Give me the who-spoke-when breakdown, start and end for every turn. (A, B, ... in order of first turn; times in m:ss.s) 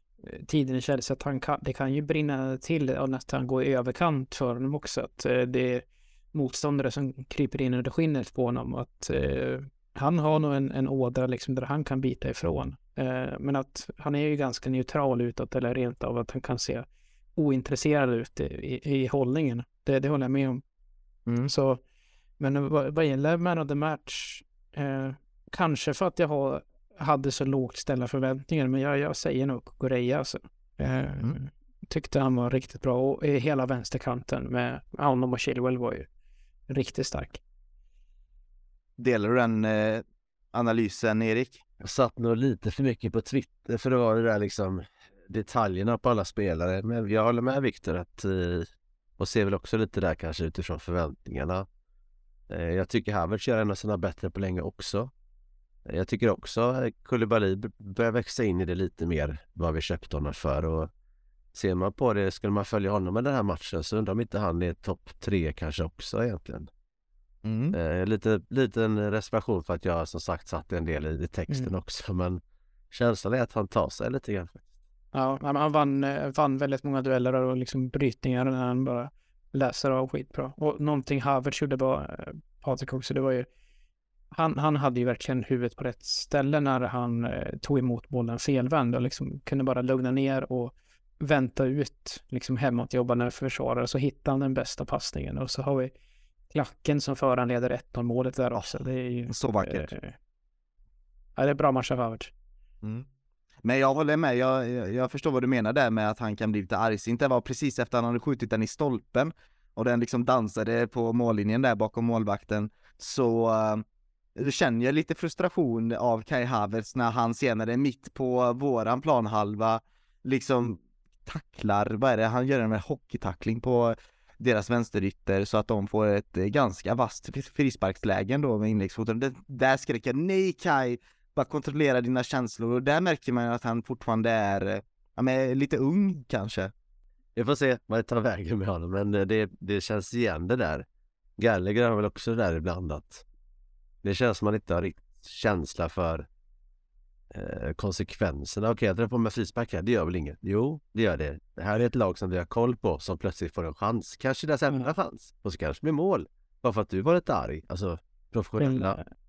0:00.2-0:20.6 A
0:21.5-0:21.8 A
0:22.4-0:36.1 A
0:36.7-0:37.4 A
0:39.0-0:41.6 B
0:41.8-0:48.7 C
0:49.2-0:51.7 C
0:52.5-0:55.1 C
0:55.9-1:00.9 C
1:01.5-1:06.7 C
1:07.4-1:07.8 B
1:07.7-1:12.4 C
1:12.9-1:14.6 C
1:15.1-1:23.5 A
1:24.3-1:35.9 A
1:36.5-1:40.2 A
1:38.6-1:39.9 B
1:41.4-1:42.3 A
1:43.6-1:53.8 B
1:54.4-2:16.7 B
2:17.4-2:20.9 C
2:21.4-2:23.2 C
2:24.0-2:26.3 C
2:27.3-2:39.0 C
2:38.6-2:39.0 A